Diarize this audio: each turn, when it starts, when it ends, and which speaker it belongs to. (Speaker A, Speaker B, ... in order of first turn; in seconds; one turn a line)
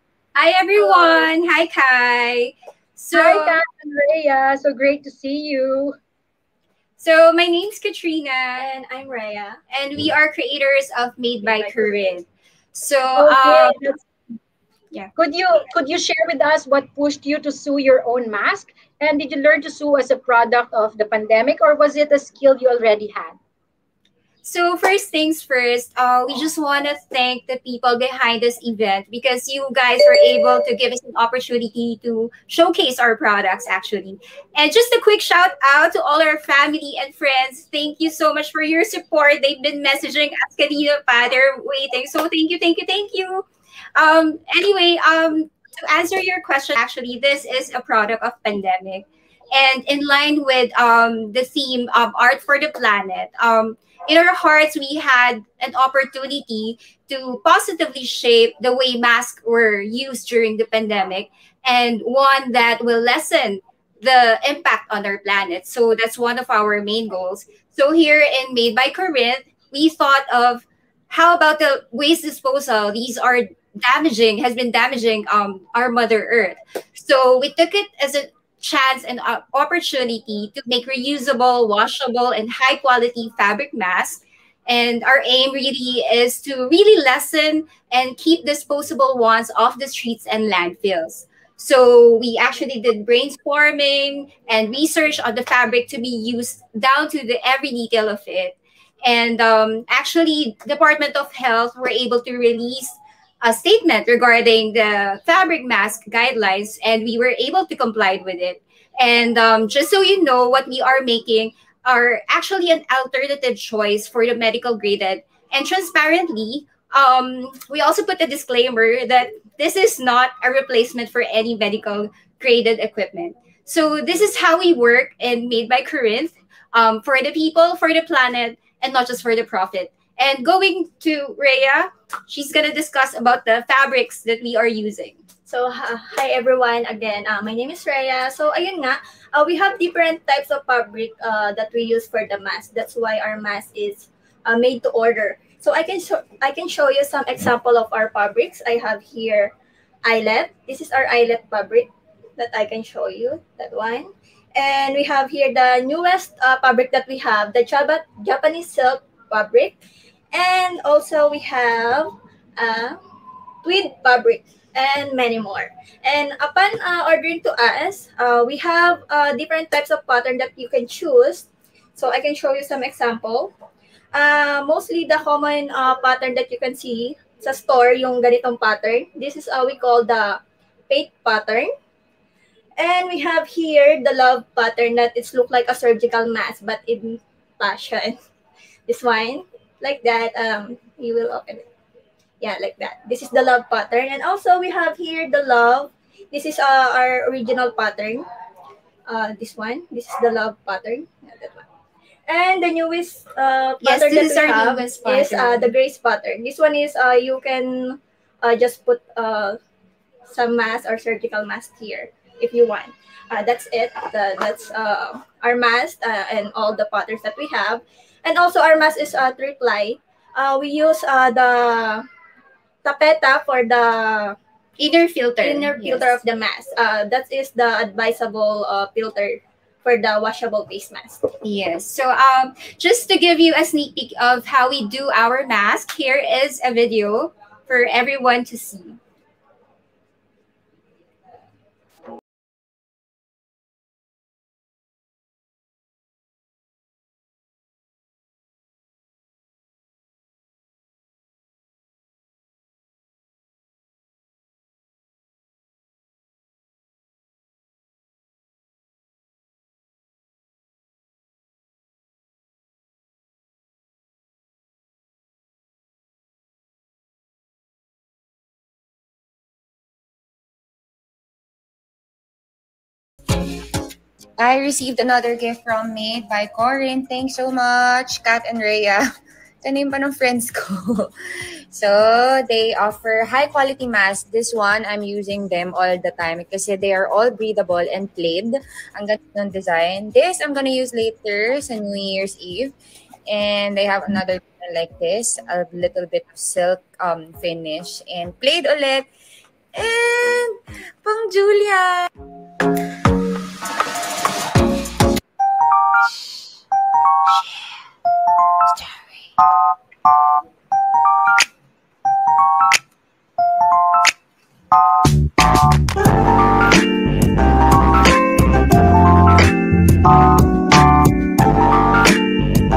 Speaker A: 0.3-3.6
Speaker B: 0.8-1.2
Speaker B: 3.1-6.0
Speaker A: 7.0-8.7
Speaker C: 8.6-9.6
Speaker A: 9.7-13.9
Speaker C: 11.4-12.0
Speaker B: 13.2-14.0
Speaker B: 15.2-23.4
Speaker A: 24.4-135.2
Speaker C: 135.5-149.5
Speaker C: 150.0-159.8
Speaker C: 160.3-163.0
Speaker C: 163.6-173.5
Speaker C: 174.1-181.7
Speaker C: 182.8-188.2
Speaker C: 188.9-191.7
Speaker C: 192.4-198.2
Speaker C: 199.1-201.7
Speaker C: 202.3-209.6
Speaker A: 203.8-205.7
Speaker C: 210.3-222.1
Speaker C: 222.8-224.4
Speaker A: 224.8-226.2
Speaker C: 225.4-231.2
Speaker A: 231.4-239.0
Speaker D: 274.4-279.1
Speaker D: 279.6-281.1
Speaker D: 281.7-292.7
Speaker D: 293.3-299.1
Speaker D: 299.8-300.5
Speaker D: 301.1-301.7